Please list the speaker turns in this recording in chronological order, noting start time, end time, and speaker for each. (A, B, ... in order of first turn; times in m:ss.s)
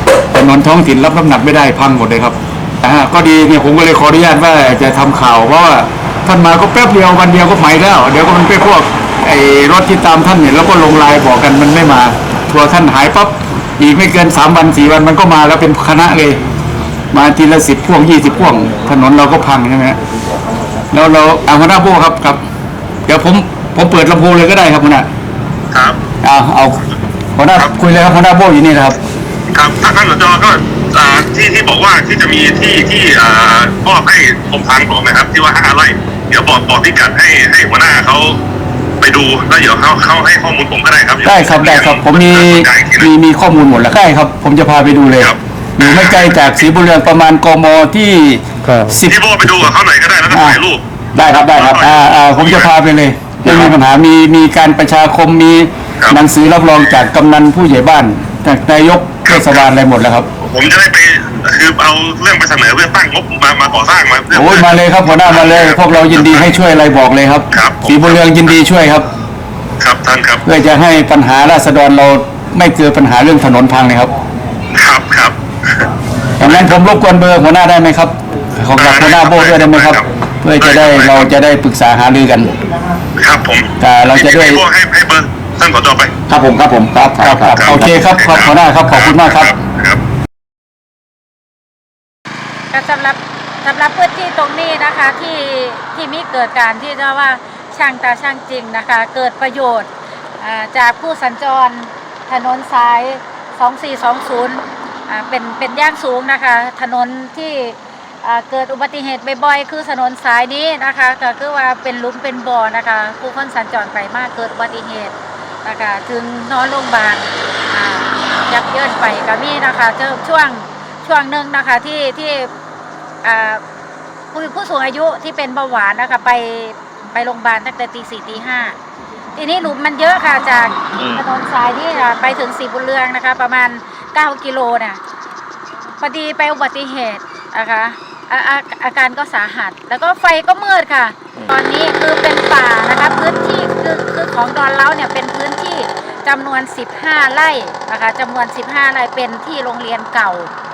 0:00.3-0:16.4 A
0:17.1-0:20.0 A
0:20.9-0:22.4 A
0:23.1-0:25.1 A
0:25.7-0:26.0 B
0:26.2-0:26.8 A
0:27.3-0:29.0 A
0:29.5-0:38.4 B
0:39.0-0:43.1 B
0:41.2-0:49.7 A
0:45.2-0:46.7 B
0:49.0-0:52.7 B
0:50.3-0:50.6 A
0:51.1-1:00.3 A
0:59.2-0:59.7 B
1:00.4-1:06.5 B
1:04.3-1:09.1 A
1:07.5-1:08.6 B
1:09.8-1:10.4 B
1:10.4-1:14.1 A
1:14.7-1:15.9 B
1:16.4-1:22.5 A
1:16.4-1:16.7 B
1:18.8-1:20.0 B
1:20.6-1:21.3 B
1:23.2-1:26.1 B
1:23.8-1:24.6 A
1:26.3-1:29.5 A
1:27.4-1:30.0 B
1:32.7-1:55.1 C
1:55.6-2:02.5 C
2:03.2-2:03.6 C
2:04.3-2:08.8 C
2:09.4-2:15.0 C
2:16.0-2:30.5 C